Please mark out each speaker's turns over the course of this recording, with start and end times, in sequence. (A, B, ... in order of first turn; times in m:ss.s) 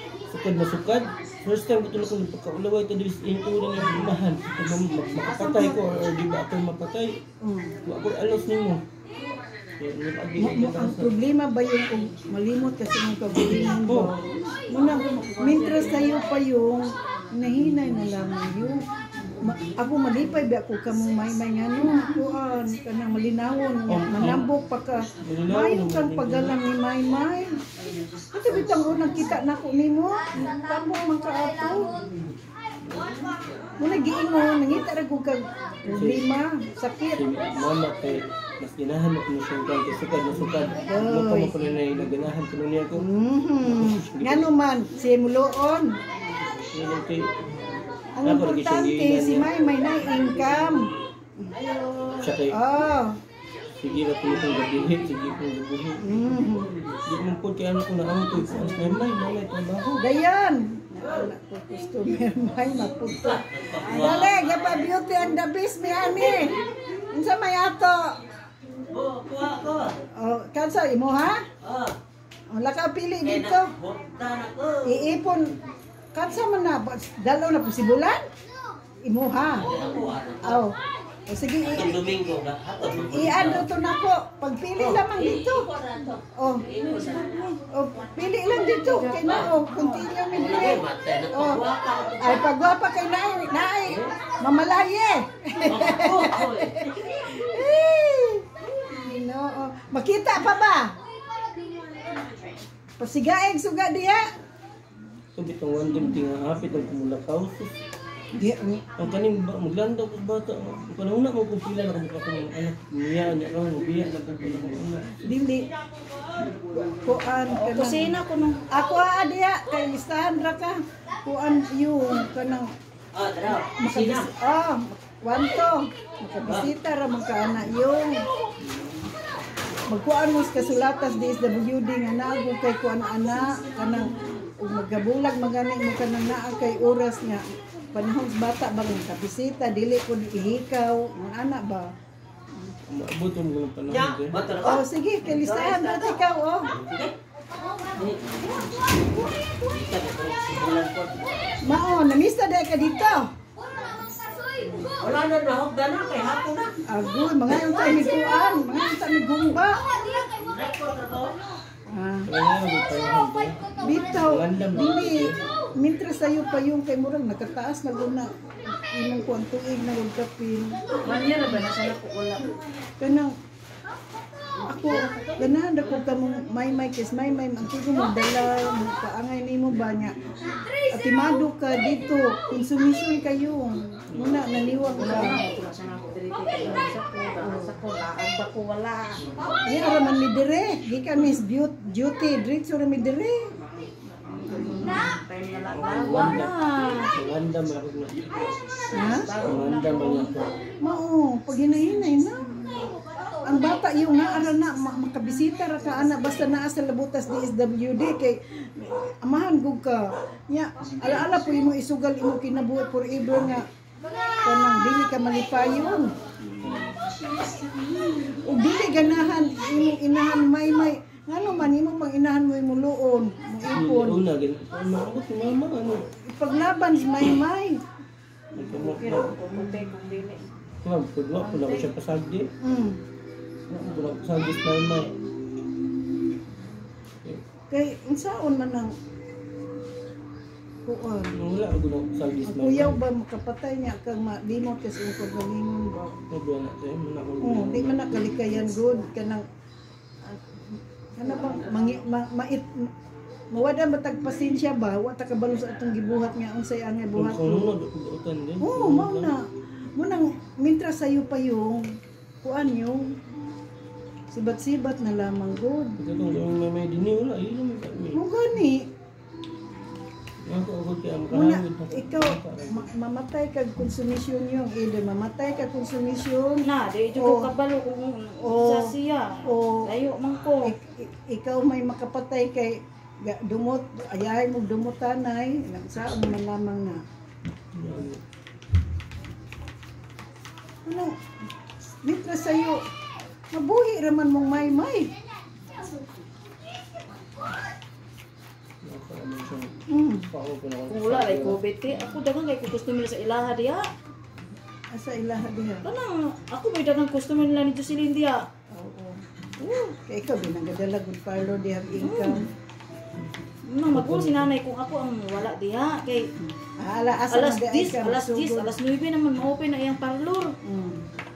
0:00.3-0:07.2 A
0:05.2-0:05.8 B
0:07.4-0:07.8 C
0:07.8-0:08.8 A
0:09.8-0:11.1 A
0:10.4-0:27.6 C
0:13.5-0:14.3 A
0:14.7-0:16.3 B
0:23.9-0:24.4 A
0:25.2-0:26.6 A
0:28.3-0:32.0 C
0:32.8-0:33.2 A
0:33.8-0:37.2 C
0:35.9-0:36.2 A
0:37.2-0:43.1 A
0:40.9-0:41.5 C
0:43.0-0:46.0 C
0:43.6-0:44.5 A
0:46.7-0:47.4 A
0:48.2-0:53.2 C
0:48.2-0:49.4 A
0:52.2-0:52.6 A
0:53.8-0:56.1 A
0:56.0-0:56.7 C
0:57.1-1:00.0 A
0:58.5-0:59.0 C
1:00.0-1:06.6 C
1:03.1-1:04.8 D
1:03.8-1:04.2 B
1:06.2-1:06.7 D
1:07.1-1:08.2 C
1:08.9-1:10.0 D
1:10.1-1:11.4 C
1:11.6-1:11.9 D
1:12.5-1:13.7 C
1:13.2-1:15.1 D
1:14.8-1:15.6 C
1:16.1-1:18.2 C
1:19.0-1:19.7 C
1:19.5-1:20.6 D
1:20.4-1:20.8 C
1:21.3-1:22.1 C
1:21.6-1:23.7 D
1:23.0-1:25.7 C
1:24.8-1:27.5 D
1:26.3-1:26.7 C
1:26.9-1:27.5 B
1:27.7-1:31.6 C
1:28.6-1:30.0 B
1:29.2-1:29.6 D
1:30.3-1:32.5 D
1:32.2-1:41.0 C
1:33.8-1:34.2 D
1:35.6-1:37.3 D
1:43.0-1:44.2 C
1:45.4-1:47.7 A
1:48.3-1:49.1 C
1:49.0-1:55.3 A
1:55.2-1:55.7 C
1:56.7-1:58.2 C
1:57.5-1:58.6 B
1:58.7-2:02.7 C
2:03.1-2:04.3 D
2:03.8-2:08.3 C
2:08.6-2:09.0 A
2:09.9-2:21.9 C
2:22.9-2:24.4 A
2:23.9-2:27.1 D
2:24.6-2:26.7 C
2:27.9-2:31.4 D
2:31.6-2:33.3 C
2:34.8-2:36.8 D
2:36.9-2:39.8 C
2:40.3-2:41.4 D
2:41.9-2:42.3 C
2:42.3-2:45.4 A
2:43.8-2:51.4 C
2:51.0-2:52.6 B
2:53.0-2:53.3 C
2:54.7-3:05.4 C
3:04.1-3:04.6 A
3:05.0-3:09.3 B
3:06.6-3:07.8 C
3:09.6-3:13.5 C
3:14.2-3:17.1 B
3:14.4-3:15.1 C
3:15.7-3:18.6 A
3:18.9-3:19.4 C
3:19.0-3:20.5 B
3:19.4-3:20.6 A
3:20.8-3:22.6 C
3:23.4-3:33.7 C
3:34.4-3:36.5 C
3:36.6-3:37.1 A
3:38.3-3:44.2 C
3:43.7-3:46.0 A
3:46.2-3:47.8 C
3:48.6-3:49.4 A
3:48.6-3:50.5 B
3:49.4-3:49.9 C
3:50.8-3:52.5 A
3:51.4-3:51.9 B
3:52.6-3:53.0 C
3:53.7-3:55.1 A
3:57.7-3:58.9 C
4:00.8-4:01.4 C
4:01.3-4:03.0 A
4:02.5-4:06.2 C
4:06.3-4:08.4 A
4:07.4-4:09.5 C
4:10.2-4:12.9 C
4:13.5-4:17.7 C
4:17.2-4:19.3 A
4:18.6-4:21.9 C
4:22.4-4:23.2 C
4:24.3-4:26.0 C
4:26.0-4:28.2 A
4:28.1-4:28.9 C
4:30.4-4:32.9 A
4:31.3-4:37.5 C
4:36.6-4:40.7 B
4:38.4-4:39.9 C
4:40.6-4:47.0 C
4:47.8-4:48.2 A
4:50.8-4:51.2 C
4:52.0-4:52.8 C
4:53.5-4:55.1 C
4:58.8-5:01.6 A
4:59.9-5:00.3 C
5:00.9-5:03.9 B
5:04.9-5:05.9 C
5:05.8-5:08.4 B
5:08.7-5:12.5 C
5:12.0-5:12.4 B
5:13.7-5:16.3 B
5:13.9-5:14.5 A
5:16.4-5:18.7 C
5:17.3-5:20.5 B
5:20.6-5:21.0 C